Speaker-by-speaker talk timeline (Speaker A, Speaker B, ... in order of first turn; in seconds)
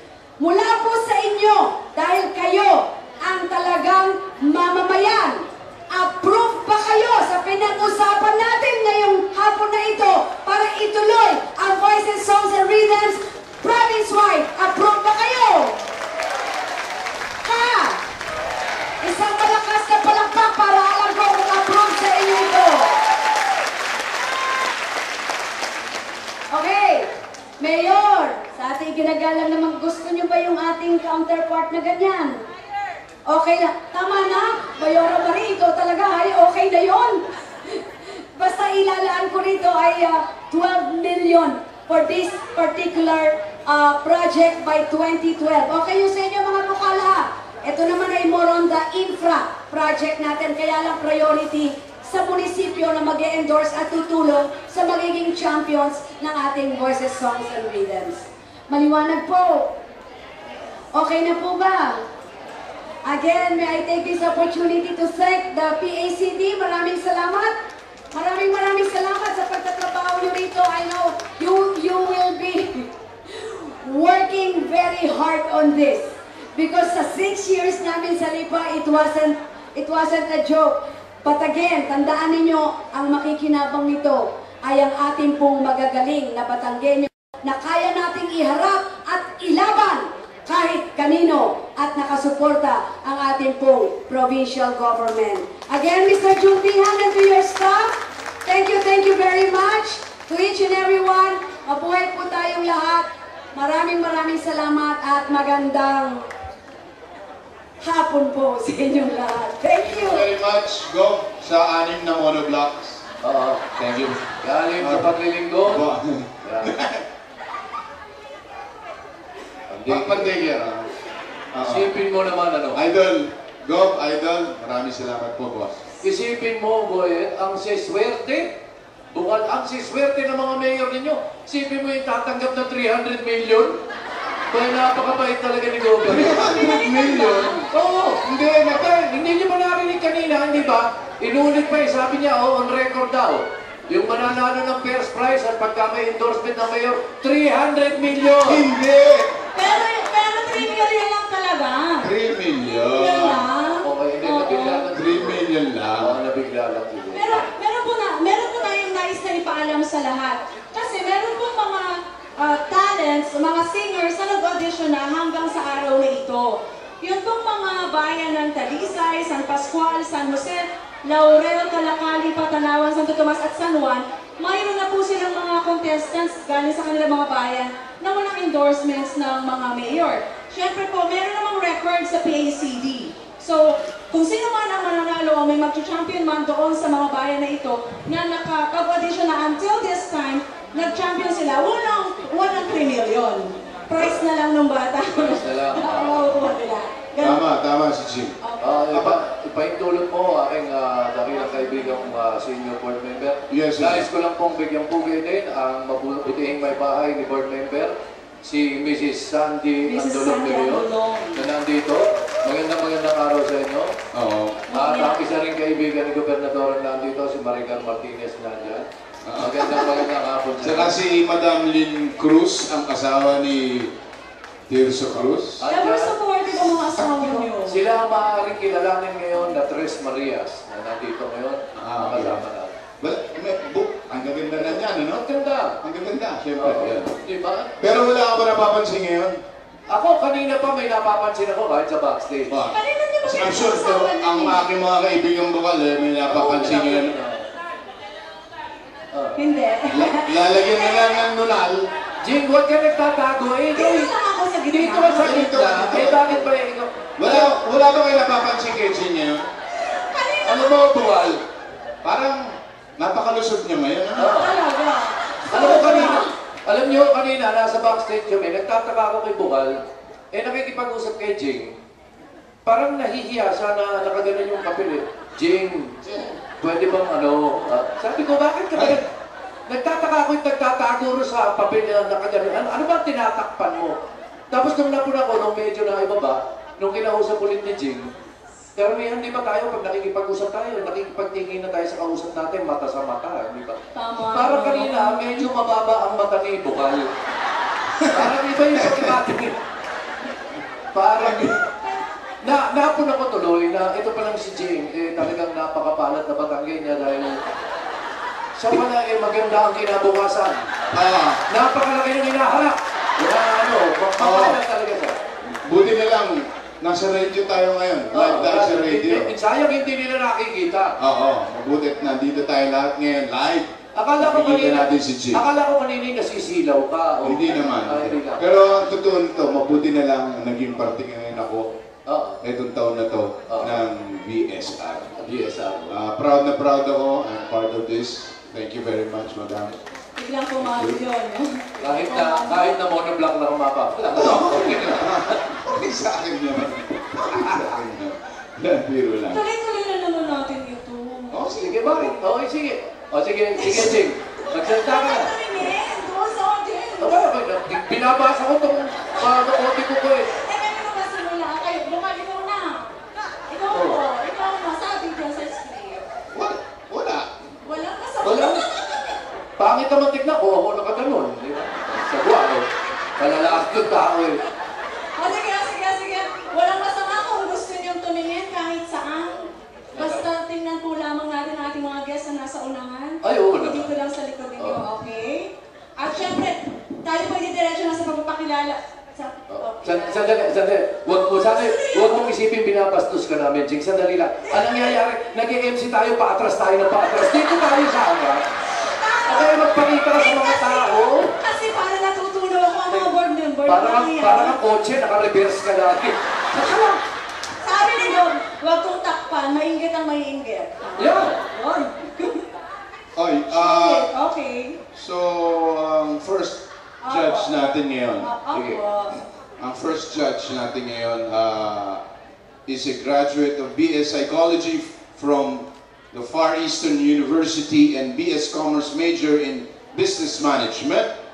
Speaker A: 0.4-15.8, 17.4-18.0, 19.0-23.0, 26.5-32.4, 33.3-37.8, 38.4-59.7, 60.9-62.0, 63.0-67.5, 68.1-106.2, 107.8-110.3
Speaker B: 109.8-113.0, 113.8-114.1, 114.8-117.0, 119.8-120.9, 121.5-121.9, 122.7-125.8, 136.0-137.7, 148.4-149.4, 152.0-153.5, 154.9-156.2, 197.2-198.4, 198.9-199.2, 203.5-204.1, 214.1-214.7, 219.2-219.8, 220.6-223.9, 224.7-225.6, 231.8-232.4, 233.0-235.2, 235.8-237.2, 237.8-239.4, 242.5-247.1, 249.9-251.9, 255.1-256.5, 257.2-259.5, 262.0-262.4, 263.0-264.5, 276.0-276.4, 278.7-279.0, 298.0-298.3, 298.8-299.1, 301.2-301.6, 310.9-311.4, 314.2-314.6, 315.6-319.3, 321.0-325.4, 327.2-331.7, 332.4-335.2, 335.9-339.8, 340.6-341.0, 344.1-349.4, 351.3-351.8, 366.3-367.3, 413.1-414.1, 414.9-418.4, 419.6-422.0, 422.6-431.1
Speaker C: 113.2-115.9, 116.4-116.7, 119.7-120.3, 121.6-122.8, 126.0-128.5, 129.1-133.8, 134.5-136.7, 137.7-148.7, 153.8-155.4, 156.0-157.4, 195.1-196.4, 198.6-213.9, 214.7-218.8, 219.4-220.9, 225.6-226.2, 227.4-232.7, 235.0-235.8, 236.6-237.9, 239.9-242.5, 246.3-247.4, 249.1-249.4, 252.2-254.1, 254.7-257.5, 260.4-261.4, 264.2-264.6, 265.5-269.8, 270.3-271.7, 272.6-276.0, 276.6-279.1, 279.7-283.9, 284.5-288.1, 288.8-293.8, 294.3-297.1, 298.1-299.5, 300.9-301.6, 302.4-307.4, 308.6-310.7, 311.5-315.1, 318.1-320.9, 323.9-328.4, 332.1-332.4, 333.5-333.8, 335.2-335.9, 341.8-345.4, 347.4-347.7, 351.5-355.3, 357.0-360.3, 363.7-364.0, 368.2-368.6, 369.6-372.7, 373.2-374.4, 379.9-380.2, 383.2-383.9, 389.5-398.4, 399.2-401.3, 403.6-406.2, 411.0-411.4, 418.5-418.8
Speaker D: 136.5-137.6, 149.5-152.1, 152.8-154.8, 157.1-197.4, 198.4-198.8, 209.8-211.5, 214.7-215.2, 225.7-227.8, 242.7-244.6, 249.4-251.1, 253.8-255.4, 259.9-260.9, 264.3-266.3, 293.9-295.5, 340.2-342.7, 349.3-352.2, 353.6-353.9, 354.5-357.3, 360.4-362.9, 363.5-366.1, 367.6-369.2, 375.2-390.3, 391.1-392.3, 394.5-395.0, 398.8-404.6, 406.5-407.0, 407.6-412.4, 413.5-414.8, 417.0-419.2